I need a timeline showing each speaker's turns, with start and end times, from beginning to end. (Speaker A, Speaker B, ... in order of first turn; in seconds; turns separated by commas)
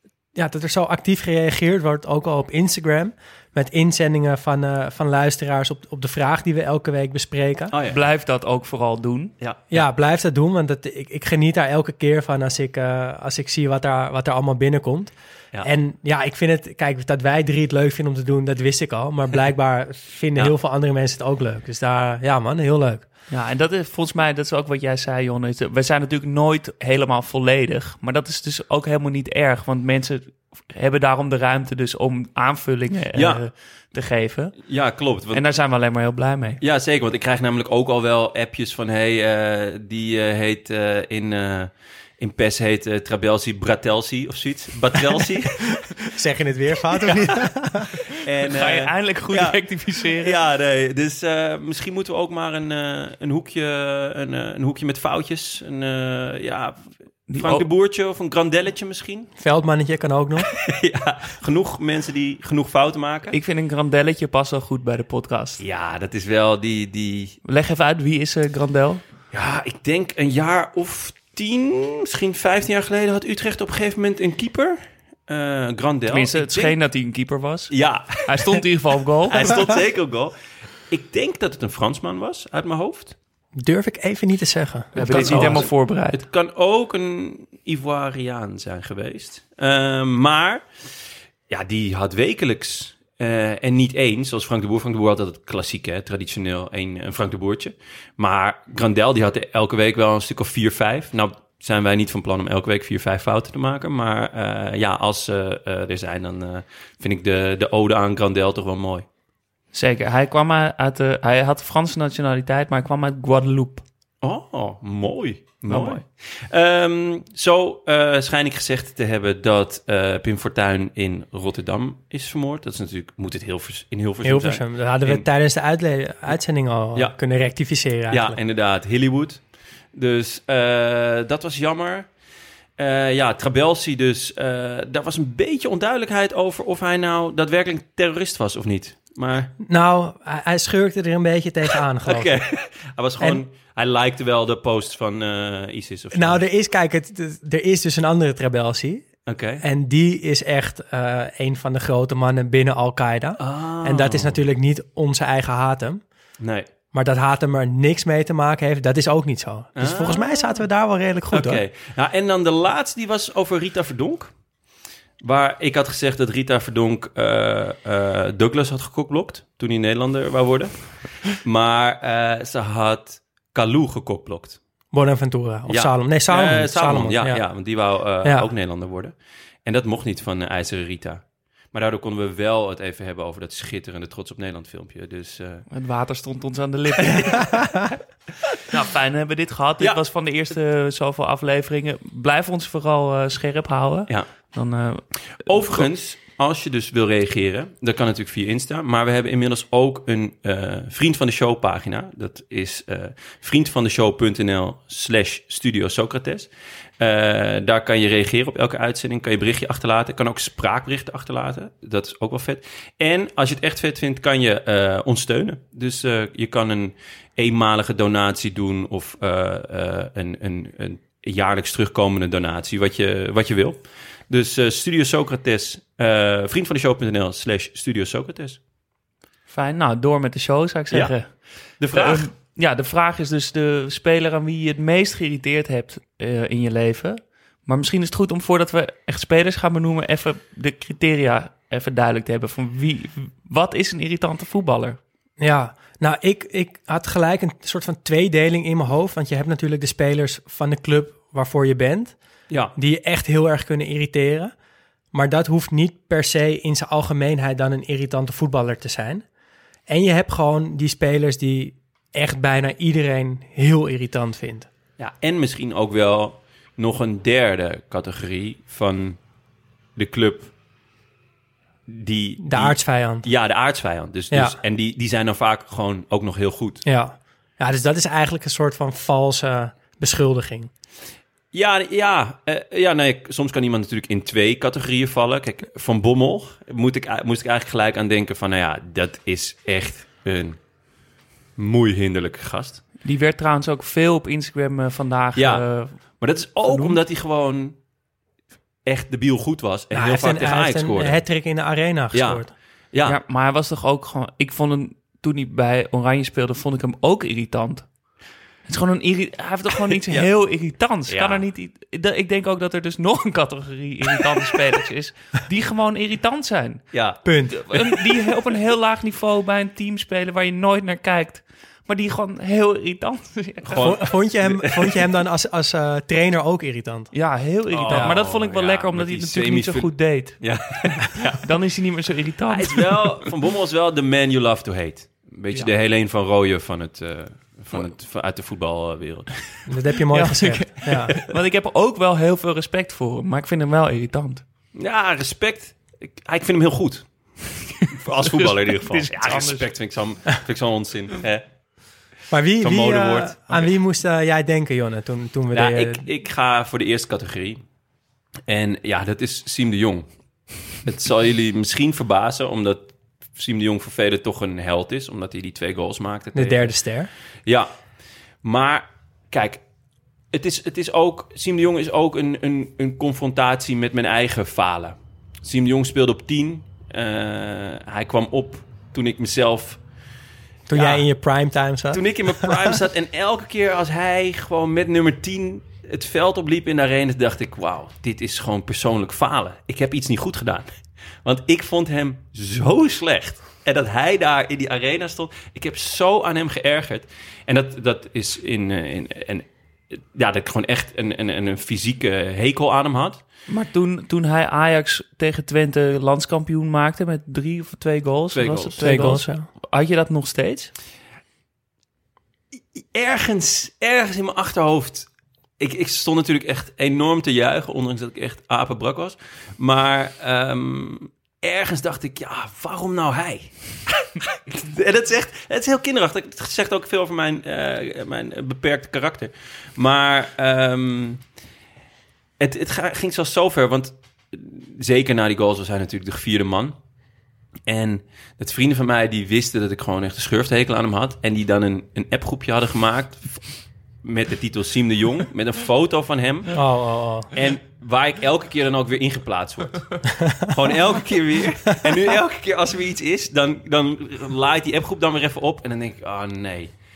Speaker A: 0.3-7.8, Speaker B: 7.7-8.0, Speaker C: 7.9-9.3, Speaker B: 9.4-9.8, Speaker A: 9.7-23.1, Speaker C: 23.3-34.6, Speaker B: 33.1-33.4, Speaker B: 34.7-35.4, Speaker C: 35.3-36.6, Speaker B: 36.6-45.6, Speaker A: 45.8-48.0, Speaker B: 47.1-47.4, Speaker B: 48.1-56.8, Speaker C: 48.4-50.4, Speaker C: 57.3-57.7, Speaker B: 57.3-59.3, Speaker A: 59.4-60.5, Speaker B: 60.4-63.3, Speaker C: 63.3-65.6, Speaker B: 65.6-67.4, Speaker C: 67.5-69.0, Speaker B: 69.3-76.8, Speaker C: 76.1-79.6, Speaker B: 77.7-78.6, Speaker B: 79.3-80.3, Speaker B: 80.9-83.2, Speaker A: 83.6-85.7, Speaker C: 85.0-86.2, Speaker B: 85.0-90.6, Speaker B: 91.5-109.1, Speaker C: 109.7-113.8, Speaker B: 114.2-125.3, Speaker C: 115.7-116.0, Speaker A: 124.2-128.4, Speaker B: 128.1-129.4, Speaker B: 129.9-132.1, Speaker B: 132.8-139.5, Speaker A: 139.6-142.4, Speaker B: 142.0-146.4, Speaker A: 146.1-149.1, Speaker B: 149.3-149.6, Speaker A: 149.6-156.0, Speaker B: 153.4-154.4, Speaker B: 156.4-156.7, Speaker A: 156.9-161.6, Speaker B: 159.8-160.5, Speaker B: 161.3-164.3, Speaker B: 165.2-174.6, Speaker A: 174.9-177.4, Speaker B: 175.7-179.1, Speaker A: 178.2-178.5, Speaker B: 179.7-185.7, Speaker C: 185.7-187.7, Speaker A: 187.3-187.9, Speaker C: 188.7-195.0, Speaker B: 195.4-228.6, Speaker C: 229.5-231.3, Speaker B: 231.8-232.3, Speaker C: 231.9-245.0, Speaker A: 245.4-252.2, Speaker A: 252.8-254.5, Speaker A: 255.1-259.2, Speaker A: 259.9-264.7, Speaker B: 265.0-269.2, Speaker B: 270.0-270.5, Speaker B: 271.9-276.8, Speaker A: 272.4-273.3, Speaker A: 274.3-274.6, Speaker A: 276.9-280.7, Speaker B: 281.5-290.6, Speaker B: 291.6-292.8, Speaker C: 293.0-296.0, Speaker B: 295.4-295.7, Speaker B: 296.2-297.8, Speaker C: 296.6-297.0, Speaker B: 298.9-301.2, Speaker A: 299.9-302.5, Speaker B: 302.1-303.2, Speaker C: 303.1-307.9, Speaker C: 308.7-316.9, Speaker B: 311.1-311.4, Speaker B: 316.9-317.2, Speaker A: 317.2-317.6, Speaker C: 317.5-323.9, Speaker B: 323.6-325.0, Speaker A: 323.8-327.1, Speaker C: 327.1-330.4, Speaker B: 327.7-331.4, Speaker A: 327.9-328.2, Speaker C: 331.3-333.3, Speaker B: 332.5-339.4, Speaker A: 339.7-341.1, Speaker C: 340.1-344.4, Speaker B: 344.8-347.1, Speaker C: 347.8-349.7, Speaker B: 347.9-351.4, Speaker A: 352.3-356.1, Speaker B: 352.6-353.7, Speaker B: 355.5-357.6, Speaker B: 358.5-360.1, Speaker B: 360.8-366.8, Speaker A: 366.3-367.1, Speaker B: 368.4-369.6, Speaker B: 370.3-379.8, Speaker A: 380.7-382.8, Speaker B: 380.7-381.1, Speaker B: 381.9-390.7, Speaker B: 391.2-403.2, Speaker C: 403.5-410.7, Speaker B: 408.3-408.9, Speaker A: 408.8-409.5, Speaker B: 412.8-415.1, Speaker B: 415.6-431.2, Speaker B: 432.4-436.8, Speaker B: 437.7-443.4, Speaker B: 444.0-446.6, Speaker A: 446.5-447.3, Speaker B: 447.3-456.7, Speaker A: 450.2-450.5